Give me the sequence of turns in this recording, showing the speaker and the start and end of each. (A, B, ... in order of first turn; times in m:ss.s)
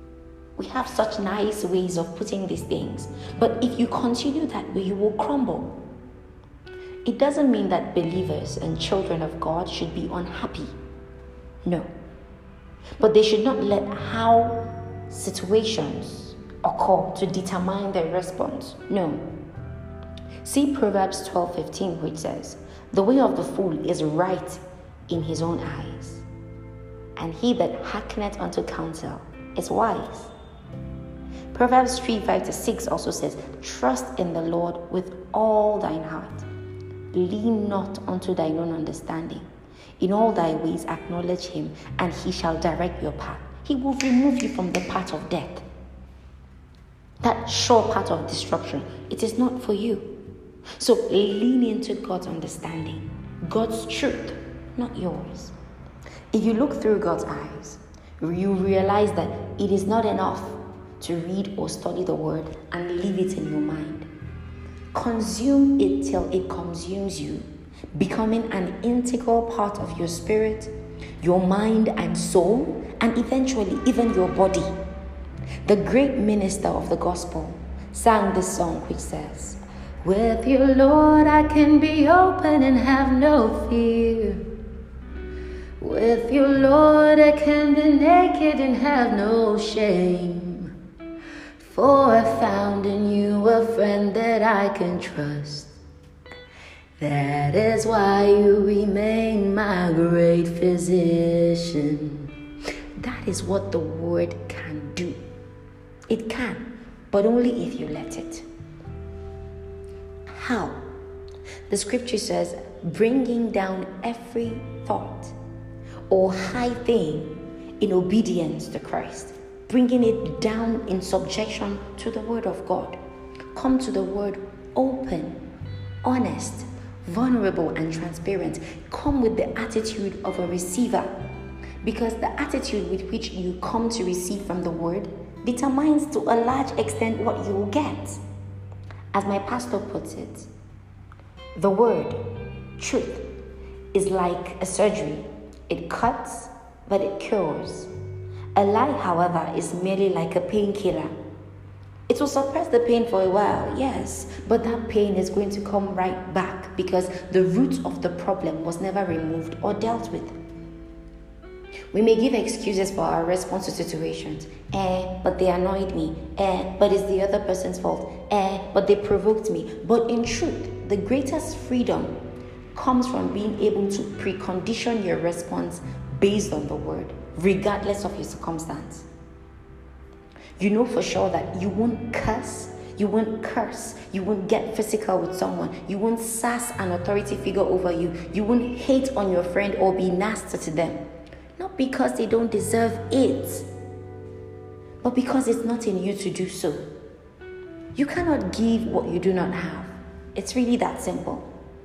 0:00.6-0:05.8 A
0:07.0-0:10.7 A
0:11.6-0:11.9 A
0:13.0-0:19.3 A
0:20.4-0:26.2 A
0:27.2-0:30.3 A
0:31.5-0:36.5 A
0:37.1-0:39.5 A
0:40.0-0:45.6 A
0:47.2-0:50.2 A
0:50.8-0:55.5 A
0:56.3-1:04.1 A
1:04.9-1:14.7 A
1:15.6-1:24.4 A
1:25.8-1:30.7 A
1:31.6-1:35.7 A
1:37.0-1:42.3 A
1:43.0-1:45.2 A
1:46.1-1:48.4 A
1:50.3-1:50.8 A
1:51.7-1:55.3 A
1:56.1-2:03.0 A
2:03.5-2:05.4 A
2:06.0-2:11.2 A
2:11.8-2:18.2 A
2:19.1-2:20.5 A
2:21.6-2:22.2 A
2:22.8-2:23.2 A
2:23.9-2:27.9 A
2:28.6-2:31.1 A
2:32.1-2:40.3 A
2:41.9-2:52.1 A
2:52.7-2:59.1 A
3:00.6-3:11.0 A
3:11.6-3:13.7 A
3:15.0-3:16.8 A
3:17.9-3:21.5 A